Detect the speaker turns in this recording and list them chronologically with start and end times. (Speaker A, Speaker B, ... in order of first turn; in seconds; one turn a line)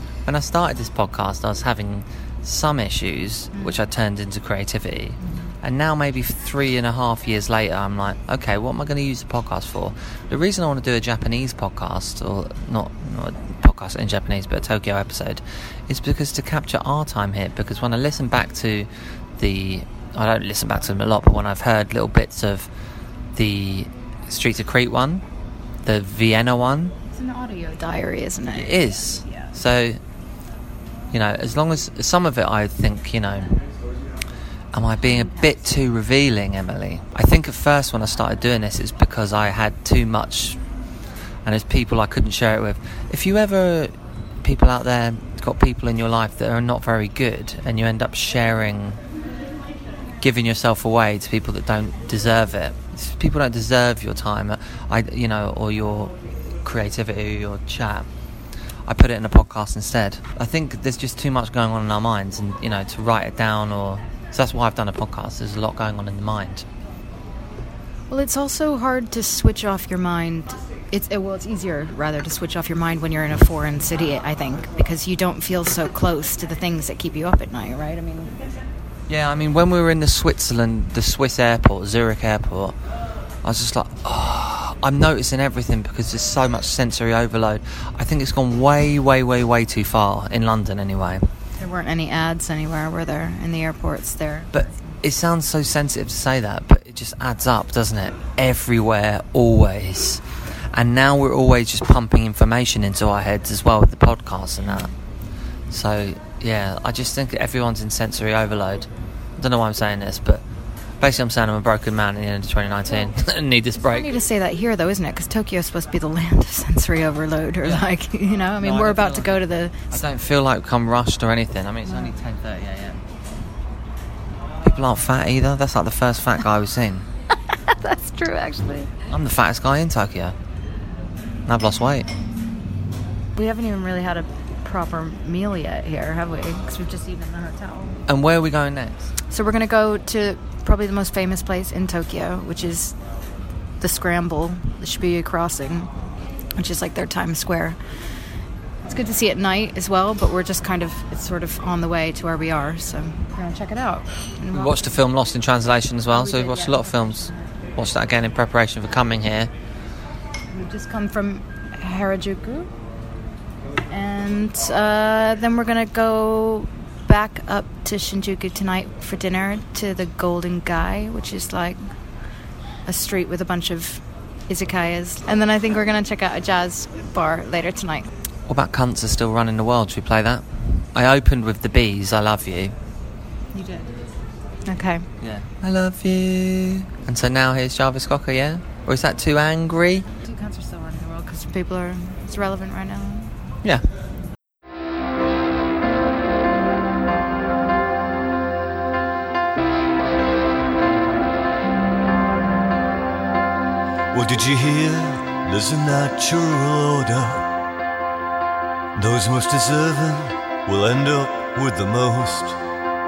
Speaker A: 0.2-22.7
Speaker B: 3.5-3.8
Speaker B: 5.2-5.5
Speaker A: 23.3-25.2
Speaker A: 25.8-26.9
Speaker B: 27.1-29.6
Speaker A: 28.5-30.0
Speaker A: 31.1-33.6
Speaker A: 34.7-40.6
Speaker B: 35.0-35.6
Speaker A: 41.4-49.0
Speaker A: 50.2-58.1
Speaker A: 58.9-66.7
Speaker B: 68.1-78.3
Speaker A: 79.1-82.8
Speaker A: 83.4-91.3
Speaker B: 91.6-94.6
Speaker A: 94.5-104.9
Speaker A: 105.7-110.4
Speaker A: 111.0-114.1
Speaker B: 113.8-119.8
Speaker A: 118.6-123.0
Speaker B: 121.9-122.1
Speaker A: 124.6-127.1
Speaker B: 127.5-128.9
Speaker A: 129.1-130.3
Speaker A: 131.5-132.1
Speaker B: 133.3-138.0
Speaker A: 138.1-139.1
Speaker B: 139.3-142.9
Speaker B: 143.8-145.9
Speaker B: 146.6-147.8
Speaker B: 148.8-154.8
Speaker A: 154.5-159.5
Speaker B: 156.1-157.4
Speaker B: 160.5-162.7
Speaker B: 163.9-171.8
Speaker B: 172.9-178.1
Speaker A: 178.5-182.8
Speaker B: 183.5-184.0
Speaker B: 184.7-185.1
Speaker A: 185.2-190.1
Speaker B: 190.2-193.3
Speaker C: 204.1-207.5
Speaker C: 208.9-212.6